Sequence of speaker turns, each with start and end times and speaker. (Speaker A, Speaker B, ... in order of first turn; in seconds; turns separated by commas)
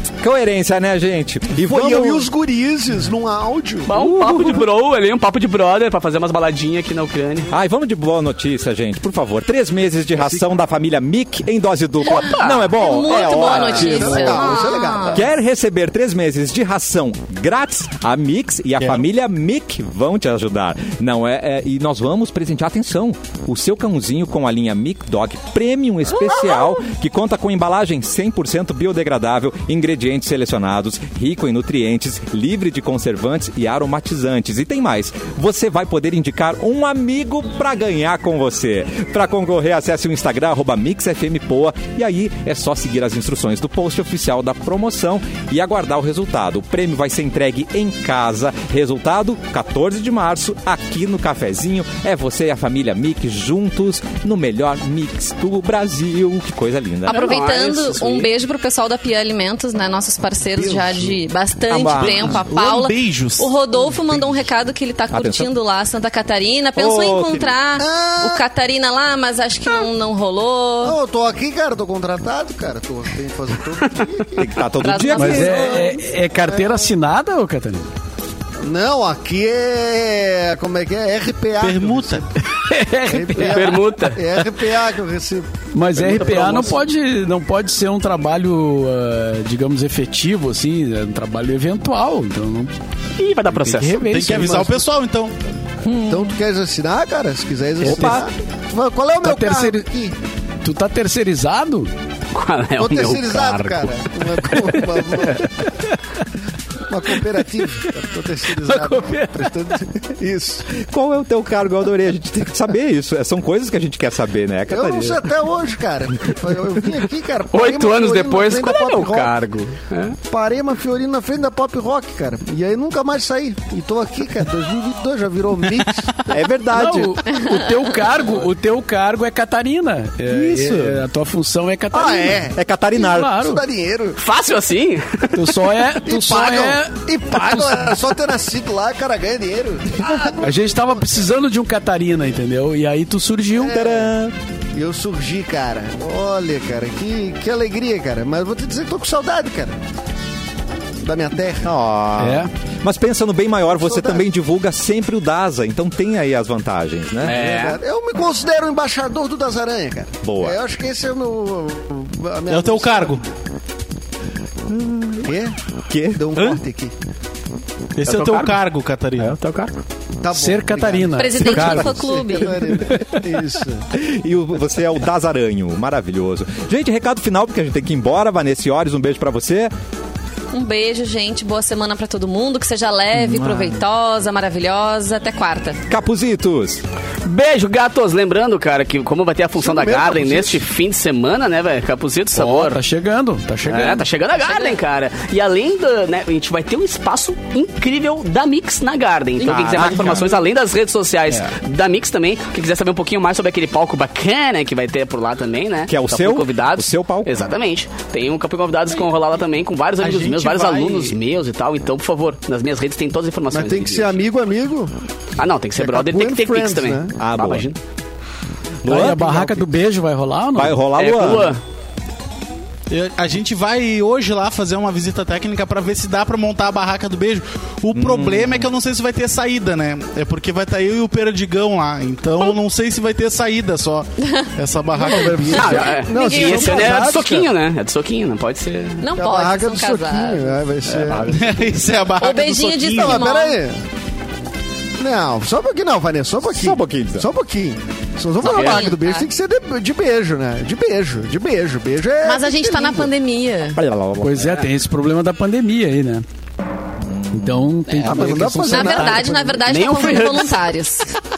Speaker A: 0.2-2.3, Speaker B: 1.6-4.5, Speaker C: 3.9-7.5, Speaker A: 3.9-4.7, Speaker A: 7.5-14.5, Speaker B: 10.2-10.4, Speaker C: 12.1-15.2, Speaker D: 12.2-15.2, Speaker B: 13.9-15.2, Speaker A: 15.1-57.4, Speaker C: 26.1-26.8, Speaker C: 57.1-58.3, Speaker D: 57.1-71.0, Speaker A: 61.7-62.5, Speaker E: 62.0-64.5, Speaker A: 65.1-65.5, Speaker A: 66.8-67.6, Speaker B: 67.8-68.5, Speaker B: 70.8-74.5, Speaker C: 73.8-74.5, Speaker A: 74.4-75.7, Speaker D: 74.8-76.0, Speaker F: 75.2-77.9, Speaker B: 76.4-76.9, Speaker B: 78.6-82.3, Speaker E: 81.6-82.2, Speaker F: 82.5-83.7, Speaker B: 83.0-86.7, Speaker C: 83.4-84.5, Speaker F: 85.7-92.7, Speaker C: 93.2-94.0, Speaker F: 93.5-94.8, Speaker E: 93.9-95.4, Speaker A: 95.8-96.3, Speaker B: 96.0-100.2, Speaker F: 97.8-98.2, Speaker A: 97.8-98.3, Speaker F: 99.2-99.9, Speaker F: 100.6-101.9, Speaker C: 102.3-105.3, Speaker B: 102.8-105.7, Speaker F: 105.6-105.9, Speaker B: 106.9-110.7, Speaker F: 108.6-109.5, Speaker A: 110.7-115.3, Speaker B: 114.7-119.4, Speaker C: 117.5-120.2, Speaker B: 120.3-126.1, Speaker A: 126.3-127.2, Speaker F: 126.7-133.6, Speaker D: 127.3-127.7, Speaker A: 130.3-131.0, Speaker B: 131.9-132.6, Speaker A: 132.5-133.6, Speaker B: 133.1-134.2, Speaker C: 134.2-135.7, Speaker F: 135.3-137.9, Speaker B: 136.0-141.0, Speaker F: 140.4-143.7, Speaker B: 143.6-144.2, Speaker A: 143.7-144.3, Speaker B: 144.7-149.8, Speaker B: 151.0-151.7, Speaker A: 151.6-157.3, Speaker F: 152.2-152.5, Speaker B: 153.7-154.3, Speaker C: 157.2-157.8, Speaker B: 157.2-163.2, Speaker A: 160.2-160.6, Speaker E: 162.5-163.2, Speaker A: 164.7-165.3, Speaker B: 165.2-166.9, Speaker A: 165.9-166.3, Speaker E: 168.0-169.4, Speaker C: 168.0-168.6, Speaker C: 169.2-169.7, Speaker B: 170.2-173.9, Speaker F: 170.3-172.0, Speaker D: 171.2-172.7, Speaker F: 172.7-173.2, Speaker A: 173.9-179.7, Speaker D: 180.5-185.8, Speaker A: 183.1-183.8, Speaker A: 185.9-186.8, Speaker C: 187.2-192.8, Speaker B: 189.6-190.6, Speaker F: 192.3-194.1, Speaker C: 193.7-214.2, Speaker A: 199.4-200.4, Speaker E: 200.0-200.3, Speaker A: 205.9-207.3, Speaker E: 210.0-211.2, Speaker B: 213.5-214.9, Speaker C: 215.4-217.8, Speaker B: 215.8-217.2, Speaker A: 217.2-217.7, Speaker A: 218.8-219.7, Speaker F: 218.8-220.8, Speaker A: 220.6-221.6, Speaker C: 221.0-221.6, Speaker E: 222.9-237.2, Speaker A: 227.9-228.7, Speaker D: 234.2-237.1, Speaker B: 235.2-237.5, Speaker C: 235.5-239.0, Speaker D: 239.0-240.6, Speaker B: 239.2-241.7, Speaker C: 240.9-241.3, Speaker E: 241.3-243.3, Speaker D: 242.2-243.6, Speaker B: 242.9-243.8, Speaker B: 245.0-253.1, Speaker A: 246.5-247.3, Speaker D: 248.4-249.3, Speaker C: 248.4-248.9, Speaker D: 252.2-253.8, Speaker A: 253.8-254.7, Speaker F: 254.2-256.2, Speaker A: 257.0-258.5, Speaker F: 257.3-259.2, Speaker B: 258.0-259.7, Speaker D: 258.6-261.1, Speaker C: 259.7-260.6